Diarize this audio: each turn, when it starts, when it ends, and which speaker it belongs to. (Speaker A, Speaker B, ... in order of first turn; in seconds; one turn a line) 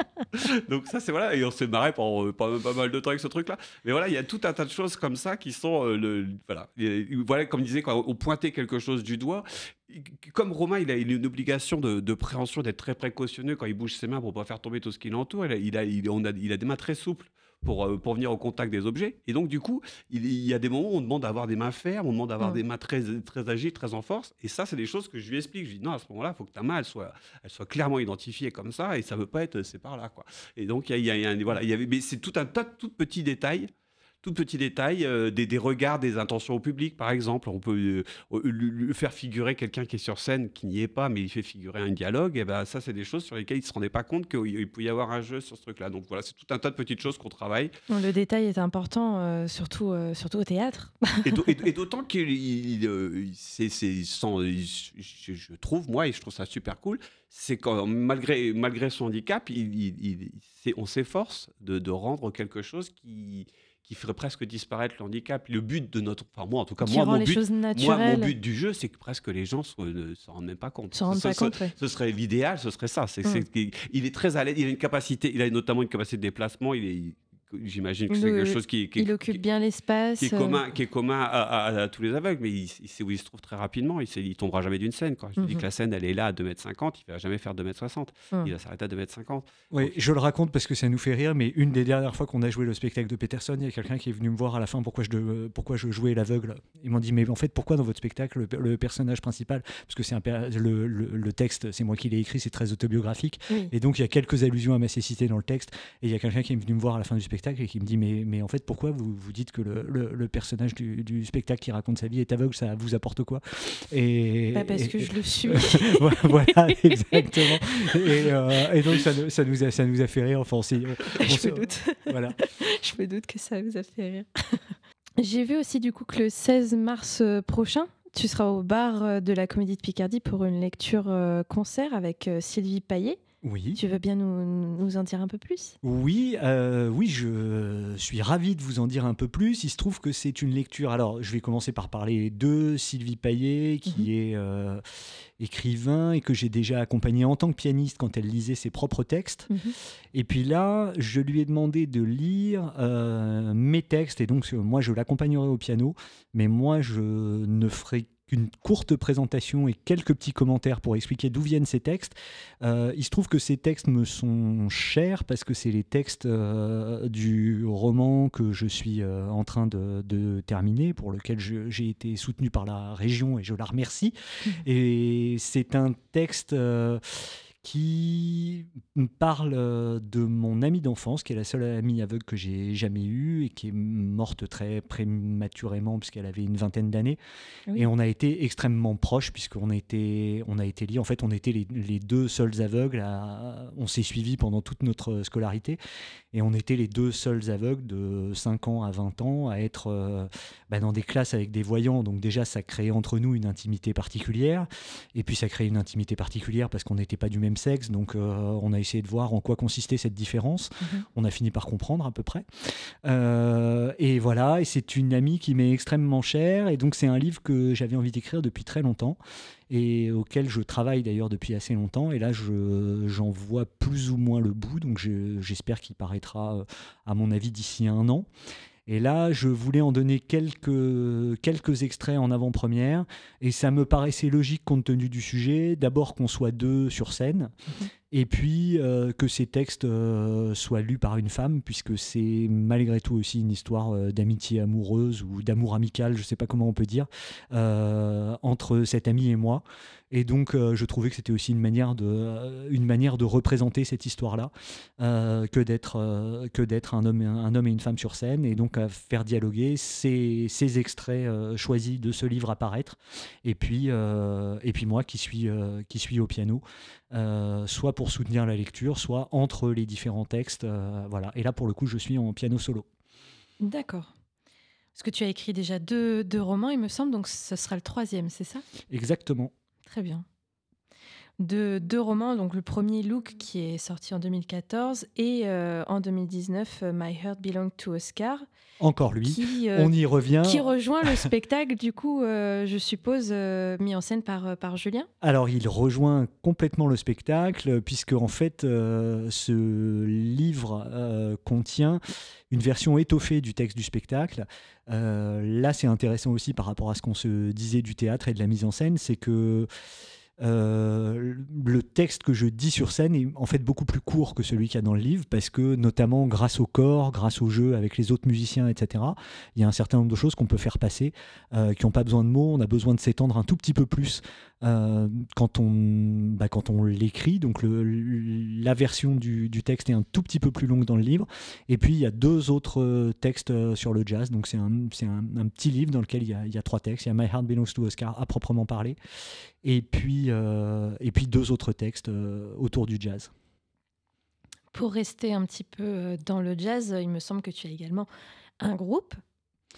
Speaker A: 0.3-33.7
Speaker A: 34.2-47.7
Speaker B: 47.9-51.3
Speaker A: 51.2-79.4
Speaker B: 66.8-68.3
Speaker B: 70.9-71.7
Speaker B: 78.1-80.6
Speaker A: 80.2-89.9
Speaker B: 85.4-85.7
Speaker C: 89.7-122.4
Speaker B: 114.5-118.3
Speaker B: 121.2-124.6
Speaker B: 125.2-133.2
Speaker C: 133.4-133.8
Speaker B: 133.7-135.8
Speaker C: 135.8-144.8
Speaker C: 145.4-149.5
Speaker B: 149.5-149.7
Speaker C: 150.1-187.2
Speaker C: 187.7-195.8
Speaker C: 196.3-219.2
Speaker C: 219.7-228.3
Speaker C: 228.9-237.5
Speaker C: 238.1-272.9
Speaker B: 273.6-274.1
Speaker B: 274.9-278.6
Speaker C: 278.9-279.5
Speaker B: 279.9-280.2
Speaker B: 281.4-288.4
Speaker C: 288.8-291.3
Speaker B: 289.2-295.1
Speaker C: 295.2-309.7
Speaker C: 310.4-339.0
Speaker C: 339.6-343.3
Speaker B: 344.7-348.1
Speaker B: 348.6-349.2